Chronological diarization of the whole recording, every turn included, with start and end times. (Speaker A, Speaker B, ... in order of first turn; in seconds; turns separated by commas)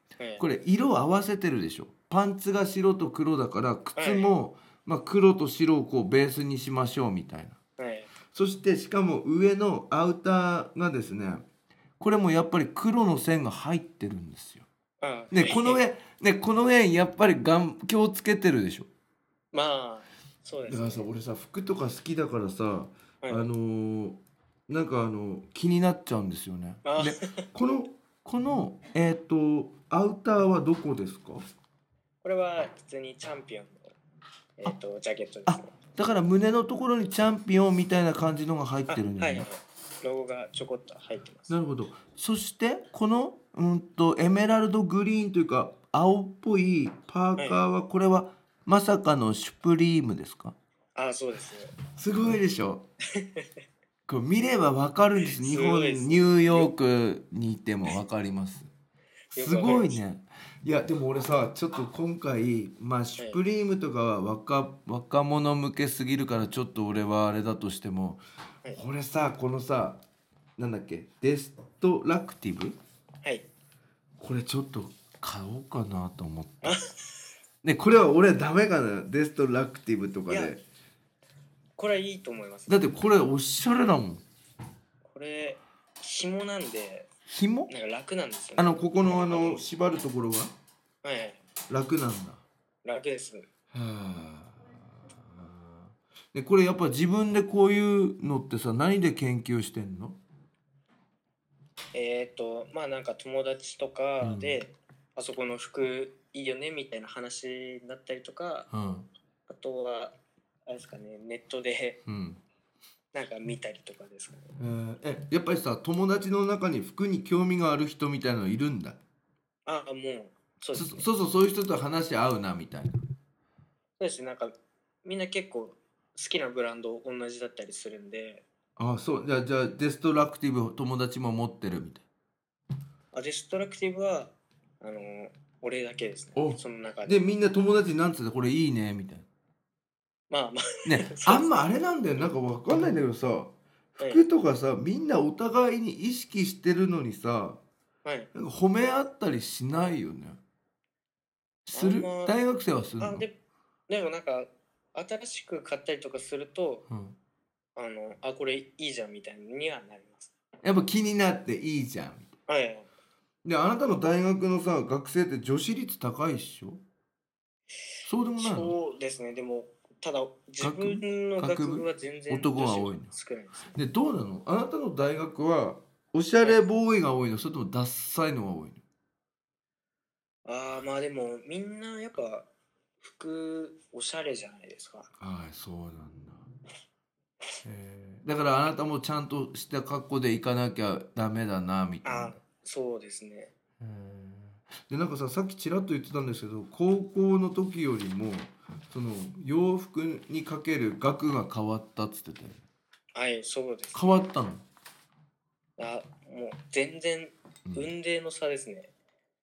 Speaker A: 0.4-7.6, Speaker B: 4.0-4.3, Speaker B: 7.8-8.1, Speaker A: 8.3-11.4, Speaker A: 12.0-14.7, Speaker B: 15.0-15.8, Speaker A: 15.3-18.9, Speaker B: 19.5-21.1, Speaker A: 20.7-31.4, Speaker B: 23.2-23.5, Speaker B: 26.9-27.5, Speaker B: 32.2-34.0, Speaker B: 34.6-35.8, Speaker A: 35.5-39.5, Speaker B: 38.9-41.5, Speaker A: 41.5-50.6, Speaker B: 51.0-51.8, Speaker A: 51.9-52.9, Speaker B: 53.1-53.5, Speaker A: 54.1-58.7, Speaker B: 55.3-56.7, Speaker B: 59.3-60.0, Speaker A: 59.4-68.2, Speaker A: 68.7-70.0, Speaker A: 70.6-72.8, Speaker A: 74.2-76.8, Speaker B: 76.6-77.2, Speaker A: 77.6-80.6, Speaker B: 80.3-80.5, Speaker B: 81.8-82.8, Speaker A: 82.7-84.2, Speaker B: 85.0-87.1, Speaker A: 87.3-87.7, Speaker B: 87.7-89.7, Speaker A: 88.6-90.5, Speaker B: 91.0-91.4, Speaker A: 91.7-92.4, Speaker B: 92.8-93.5, Speaker A: 93.7-100.2, Speaker B: 101.9-108.7, Speaker A: 104.2-104.6, Speaker A: 108.7-109.1, Speaker B: 109.5-110.1, Speaker B: 110.7-112.0, Speaker A: 112.1-112.4, Speaker B: 113.1-114.5, Speaker A: 114.6-119.0, Speaker B: 119.7-121.0, Speaker A: 120.7-123.0, Speaker B: 124.0-128.4, Speaker A: 128.8-132.1, Speaker B: 133.1-137.2, Speaker A: 136.4-139.3, Speaker B: 140.3-141.7, Speaker A: 140.8-147.6, Speaker B: 148.1-148.3, Speaker A: 148.3-150.4, Speaker A: 151.7-153.2, Speaker B: 151.7-152.3, Speaker B: 153.0-153.3, Speaker B: 153.9-156.8, Speaker A: 156.9-157.2, Speaker B: 157.8-160.3, Speaker A: 160.6-162.3, Speaker B: 162.5-162.9, Speaker A: 163.4-166.8, Speaker A: 168.1-168.7, Speaker B: 168.4-173.8, Speaker A: 170.6-173.1, Speaker A: 173.7-178.8, Speaker B: 180.4-182.5, Speaker B: 183.0-185.1, Speaker A: 185.2-186.5, Speaker A: 187.6-192.4, Speaker B: 192.0-193.5, Speaker A: 193.8-202.6, Speaker B: 203.1-204.3, Speaker A: 203.9-204.7, Speaker B: 205.8-208.9